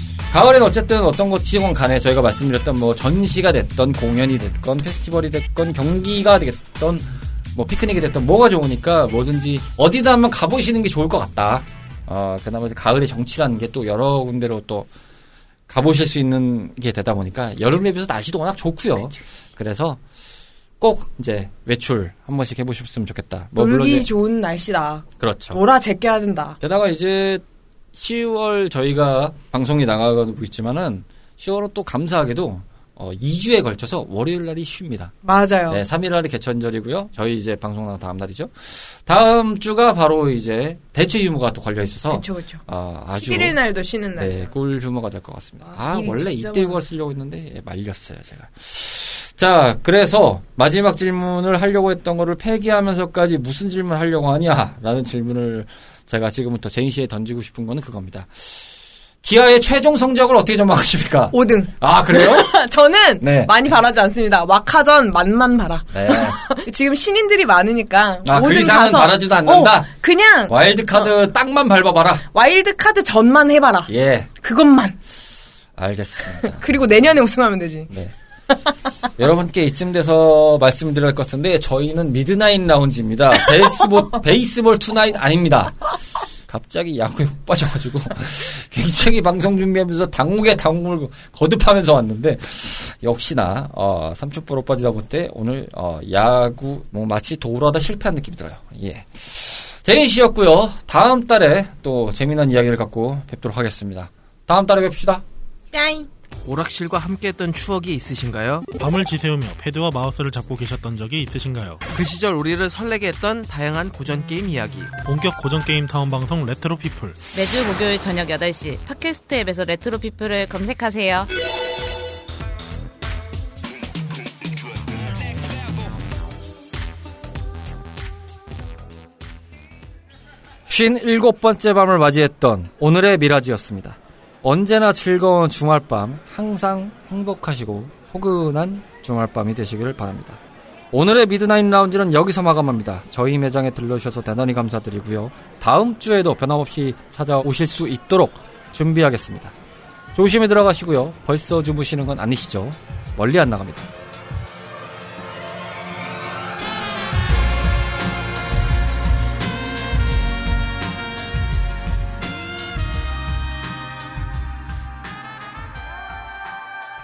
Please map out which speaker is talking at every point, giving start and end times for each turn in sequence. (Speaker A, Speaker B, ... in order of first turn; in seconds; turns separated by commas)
Speaker A: 0.3-14.9, Speaker A: 15.7-20.0, Speaker A: 20.8-24.1, Speaker B: 23.6-26.6, Speaker A: 25.2-25.6, Speaker A: 26.6-35.1, Speaker B: 35.2-35.8, Speaker A: 35.7-43.5, Speaker B: 42.1-42.6, Speaker B: 43.1-44.5, Speaker A: 44.2-58.5, Speaker B: 45.7-46.8, Speaker A: 59.2-62.6, Speaker B: 61.3-71.1, Speaker A: 63.2-63.5, Speaker A: 65.9-66.4, Speaker A: 68.2-69.9, Speaker A: 70.5-72.2, Speaker B: 72.3-75.0, Speaker A: 73.9-74.3, Speaker A: 75.8-76.7, Speaker B: 76.3-77.9, Speaker A: 79.2-85.9, Speaker A: 86.5-105.2, Speaker B: 105.7-106.1, Speaker C: 106.4-108.7, Speaker D: 108.7-111.8, Speaker C: 111.9-115.0, Speaker D: 115.0-117.2, Speaker E: 117.3-121.3, Speaker A: 130.7-140.4, Speaker A: 140.9-149.6, Speaker A: 150.1-153.9